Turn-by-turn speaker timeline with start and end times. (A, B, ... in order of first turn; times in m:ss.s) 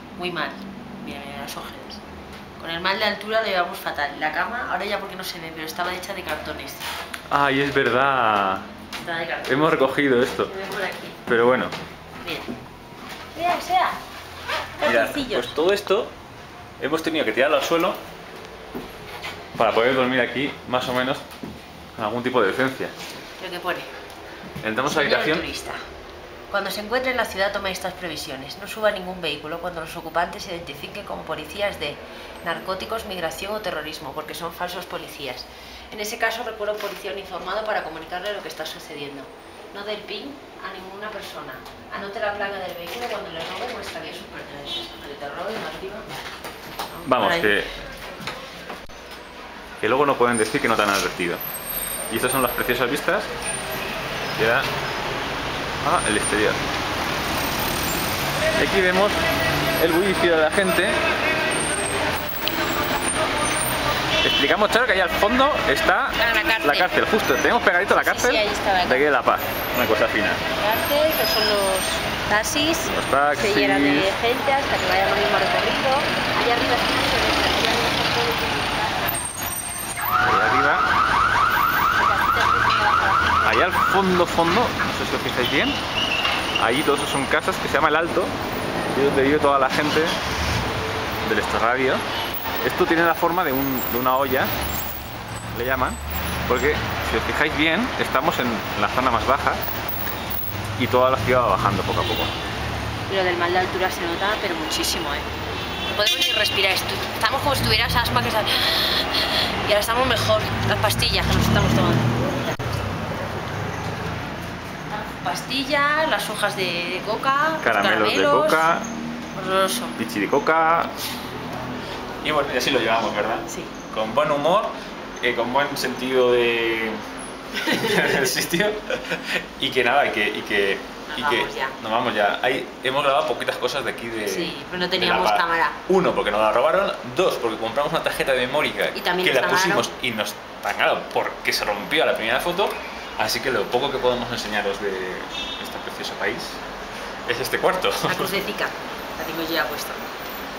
0:00.2-0:02.0 A
0:02.6-0:06.9 A
0:07.3-0:08.6 B
0:09.0-0:11.2 A
0:09.5-0:10.5 B
0:11.3-0:11.7 B
0:12.2-0:12.5 A
0:13.4-0:14.0 A
0:14.8-0:15.6 A
0:14.8-0:16.1 B
0:16.8-0:18.0 B
0:19.6-0:21.2 B
0:22.0-0:22.9 B
0:23.4-0:23.9 A
0:24.6-0:25.4 B
0:24.9-0:25.8 A
0:26.5-0:46.1 A
0:46.9-0:47.7 A
0:47.0-0:47.7 B
0:49.8-0:51.4 B
0:52.1-0:53.3 B
0:54.4-0:54.7 B
0:55.8-0:56.6 B
0:58.6-0:59.2 B
0:59.8-1:01.0 B
1:04.2-1:10.4 B
1:06.2-1:06.9 A
1:07.8-1:09.1 A
1:10.6-1:19.1 A
1:12.9-1:14.1 B
1:20.2-1:20.9 B
1:22.0-1:23.5 A
1:23.4-1:25.8 B
1:26.6-1:28.3 B
1:28.9-1:30.2 B
1:31.2-1:32.0 B
1:32.6-1:34.5 B
1:35.5-1:39.6 B
1:40.8-1:42.4 B
1:43.1-1:45.3 A
1:45.9-1:53.0 A
1:54.9-1:58.7 A
1:57.6-1:58.9 B
1:59.4-2:00.0 A
2:00.0-2:00.9 B
2:02.2-2:07.0 B
2:03.5-2:03.7 A
2:07.6-2:08.3 A
2:07.7-2:26.6 B
2:11.1-2:11.8 A
2:14.3-2:15.8 A
2:18.9-2:19.9 A
2:27.3-2:28.3 B
2:28.0-2:30.1 A